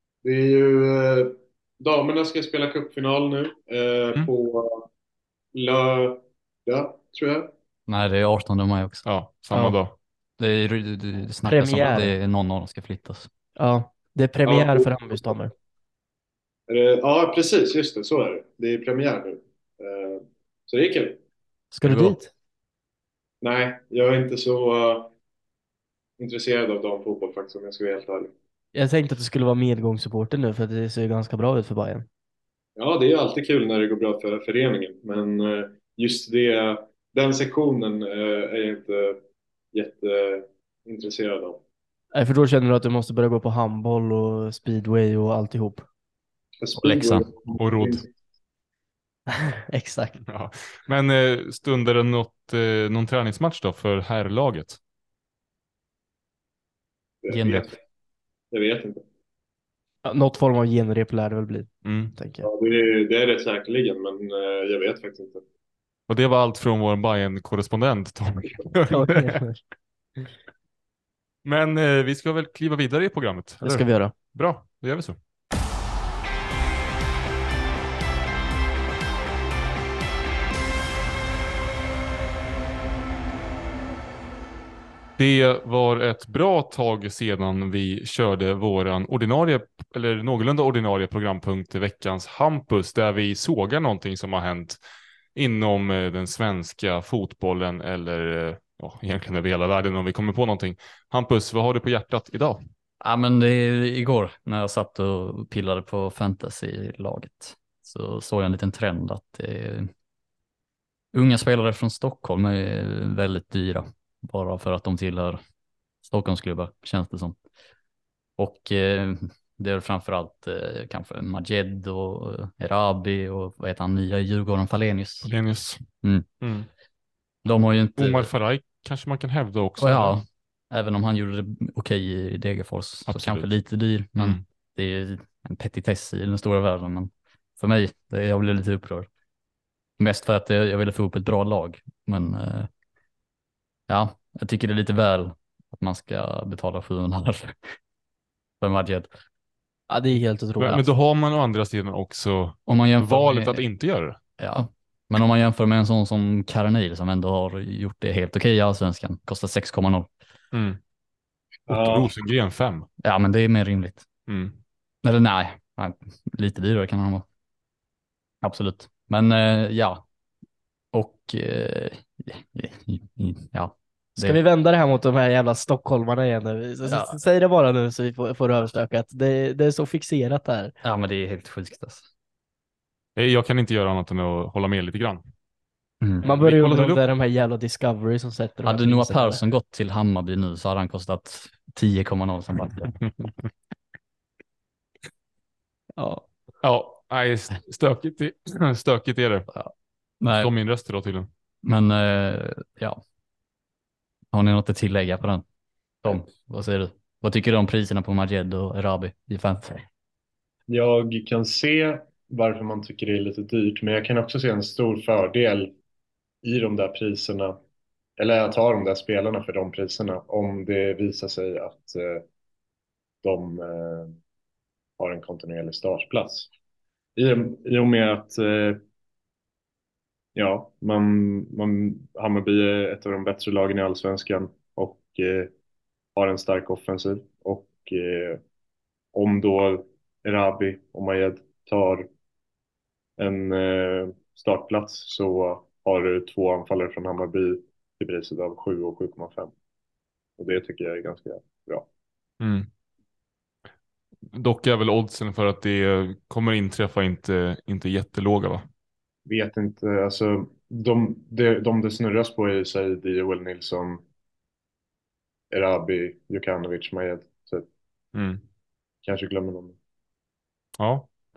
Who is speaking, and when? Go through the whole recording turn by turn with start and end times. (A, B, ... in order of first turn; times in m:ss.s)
0:00.2-0:04.9 A
0:05.5-0:07.5 A
0:07.9-0:09.0 B
0:09.0-0:09.9 C
0:09.5-0:09.8 D
0:10.4-0:13.3 B
0:11.4-0:12.1 D
0:13.6-0:15.5 D
0:14.5-0:15.2 A
0:16.7-0:21.2 A
0:21.7-0:22.3 D
0:21.8-0:22.2 B
0:23.4-0:25.1 A
0:26.2-0:28.3 A
0:28.7-0:32.1 D
0:32.8-0:39.2 A
0:39.7-0:41.6 A
0:42.1-0:45.8 D
0:46.6-0:48.0 A
0:46.8-0:47.2 B
0:47.5-0:48.0 C
0:49.3-0:50.2 D
0:50.2-0:54.8 C
0:57.2-0:57.8 A
0:57.3-0:57.7 B
0:58.5-0:59.0 A
1:00.0-1:02.4 D
1:01.8-1:02.2 C
1:02.4-1:05.4 A
1:06.1-1:09.4 C
1:08.9-1:09.6 D
1:11.4-1:15.2 C
1:13.6-1:14.1 D
1:25.2-1:34.8 C
1:35.3-1:42.6 C
1:43.0-1:49.9 B
1:51.1-1:55.4 B
1:56.0-1:57.4 B
1:58.4-2:05.3 B
2:05.2-2:05.8 C
2:06.0-2:06.3 B
2:06.4-2:06.7 C
2:07.4-2:08.3 B
2:08.0-2:10.2 C
2:09.8-2:19.1 B
2:13.1-2:13.5 C
2:14.2-2:14.4 C
2:20.0-2:22.7 B
2:23.9-2:27.6 B
2:28.6-2:29.1 B
2:29.9-2:30.8 D
2:30.6-2:34.2 C
2:32.7-2:33.6 B
2:34.4-2:40.1 B
2:40.5-2:40.8 C
2:41.7-2:42.9 C
2:41.7-2:42.1 A
2:43.0-2:44.1 B
2:44.3-2:44.6 C
2:45.0-2:47.2 B
2:48.4-2:50.0 B
2:50.9-2:54.4 B
2:54.2-3:00.7 D
2:56.8-2:57.2 B
3:00.8-3:02.1 B
3:03.2-3:05.2 C
3:06.0-3:06.2 B
3:06.2-3:09.4 D
3:06.2-3:07.0 C
3:08.6-3:13.0 B
3:16.0-3:16.2 D
3:16.6-3:19.5 C
3:19.5-3:20.5 B
3:20.3-3:21.3 C
3:21.6-3:23.0 B
3:24.3-3:25.4 B
3:26.0-3:29.9 B
3:30.7-3:35.7 A
3:36.4-3:37.6 A
3:38.2-3:42.2 A
3:43.2-3:44.2 A
3:45.0-3:46.5 A
3:47.2-3:48.8 A
3:50.3-3:55.5 A
3:56.2-3:58.4 A
3:59.1-4:02.1 A
4:03.2-4:09.5 A
4:10.4-4:11.9 A
4:12.4-4:12.7 C
4:14.3-4:18.7 C
4:19.2-4:24.0 A
4:25.5-4:27.7 A
4:28.1-4:28.4 C
4:29.0-4:29.8 A
4:30.8-4:31.1 C